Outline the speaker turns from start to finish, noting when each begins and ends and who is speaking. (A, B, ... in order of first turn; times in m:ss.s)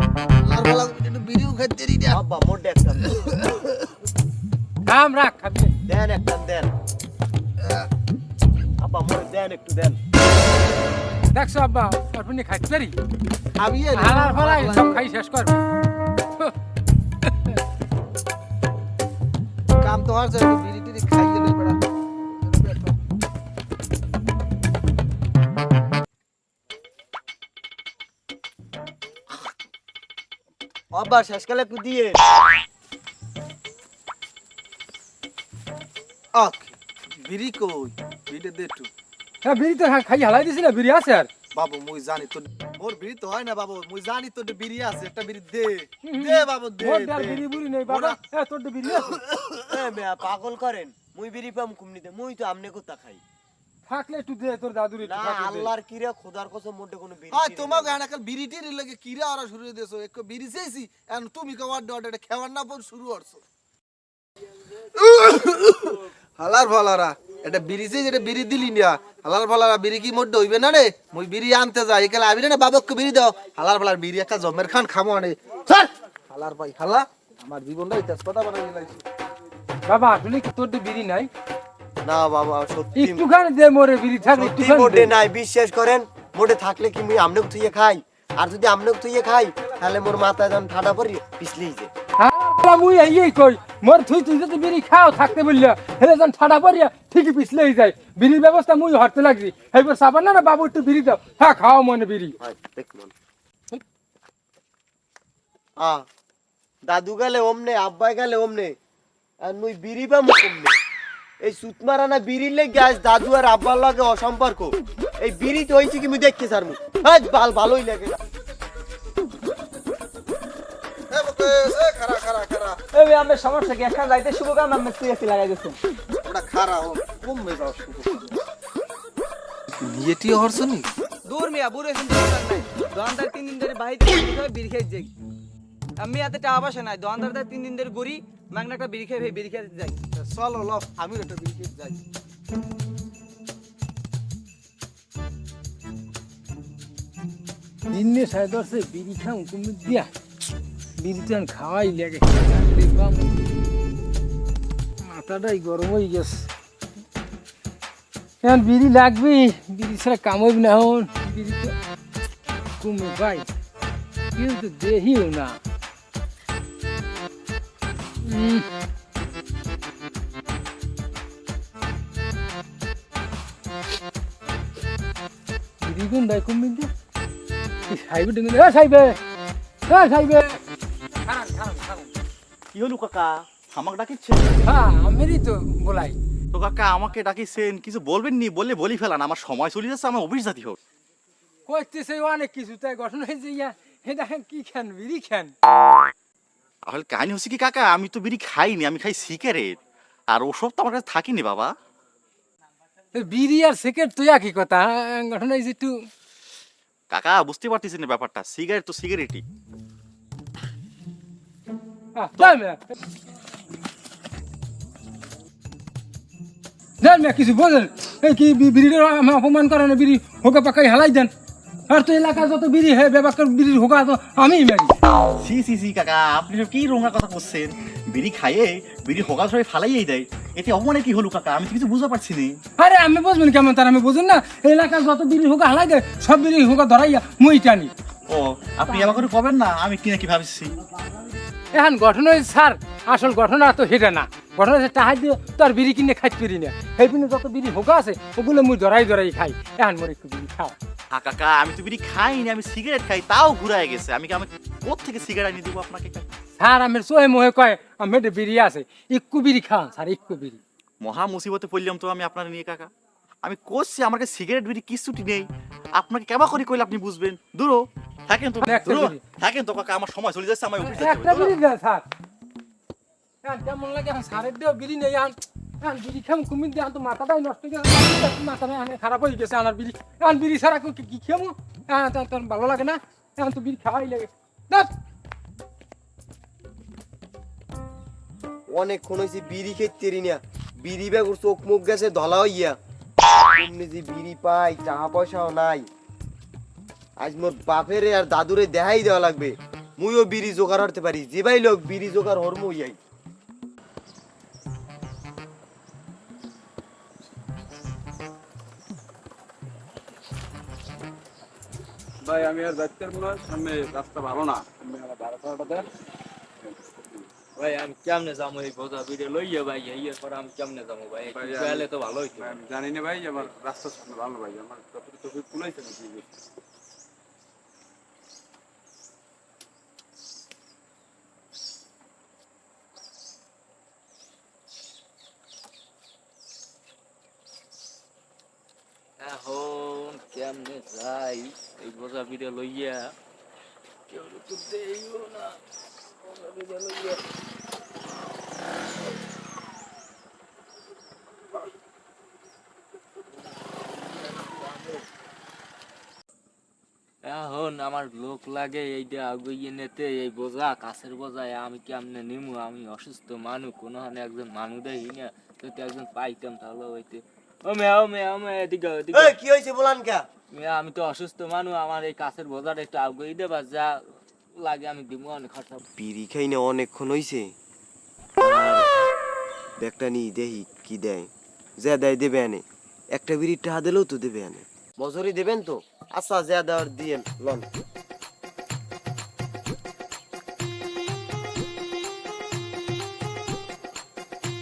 0:00.4-0:02.2 A
0:02.1-0:03.1 B
0:03.1-0:03.6 A
0:04.9-0:05.8 C
0:05.9-0:06.7 B
0:08.8-0:10.0 B
0:11.3-0:13.0 C
0:13.6-0:15.0 A
0:13.9-0:15.6 C
0:17.2-0:17.6 C
0:19.8-0:21.8 A
0:22.5-0:23.0 A
0:30.9-0:32.2 B
0:36.3-0:38.9 A
0:39.4-0:41.3 C
0:41.6-0:48.2 A
0:46.0-0:49.2 C
0:49.0-0:49.8 A
0:49.7-0:53.2 B
0:53.9-0:55.7 C
0:55.0-0:58.0 B
0:57.3-1:03.4 A
1:05.0-1:19.0 A
1:19.9-1:21.3 C
1:22.0-1:23.2 B
1:23.0-1:25.1 C
1:24.3-1:31.9 B
1:32.2-1:42.4 C
1:42.4-1:43.1 B
1:45.8-1:46.0 B
1:46.8-1:48.8 B
1:49.4-1:50.8 B
1:51.4-1:58.2 B
2:01.1-2:02.8 A
2:02.9-2:05.8 D
2:06.2-2:08.3 A
2:09.8-2:10.9 A
2:11.3-2:15.1 D
2:16.0-2:20.0 D
2:20.2-2:22.0 A
2:27.9-2:30.1 C
2:31.0-2:33.4 C
2:35.0-2:36.4 C
2:38.4-2:41.7 C
2:42.8-2:43.5 C
2:44.4-2:45.6 C
2:48.2-2:48.7 C
2:55.8-2:56.9 C
2:57.9-2:59.2 C
2:59.9-3:00.6 C
3:01.2-3:02.1 C
3:02.7-3:04.7 E
3:04.6-3:06.2 C
3:06.5-3:10.8 E
3:11.7-3:15.5 C
3:16.9-3:19.8 E
3:20.3-3:21.7 E
3:23.1-3:25.9 C
3:27.1-3:29.4 E
3:32.2-3:32.8 C
3:37.0-3:41.3 C
3:41.9-3:44.9 C
3:45.4-3:52.5 E
3:52.8-3:57.9 C
3:58.3-4:00.7 E
4:01.7-4:10.8 C
4:11.1-4:16.2 E
4:16.6-4:20.6 C
4:21.0-4:22.9 E
4:23.4-4:25.5 E
4:26.0-4:31.6 E
4:28.6-4:29.2 C
4:30.8-4:32.0 C
4:33.4-4:44.9 C
4:48.7-4:52.8 B
4:53.6-4:55.9 B
4:57.2-5:03.0 B
5:12.2-5:15.9 F
5:17.6-5:22.5 G
5:21.3-5:26.3 F
5:39.2-5:43.1 G
5:44.1-5:45.6 G
5:46.4-5:47.2 G
5:57.3-6:09.3 G
6:09.1-6:10.2 B
6:10.5-6:13.9 G
6:14.6-6:15.8 G
6:16.0-6:17.5 B
6:18.4-6:18.9 B
6:19.8-6:21.3 B
6:21.8-6:22.6 B
6:23.2-6:27.6 B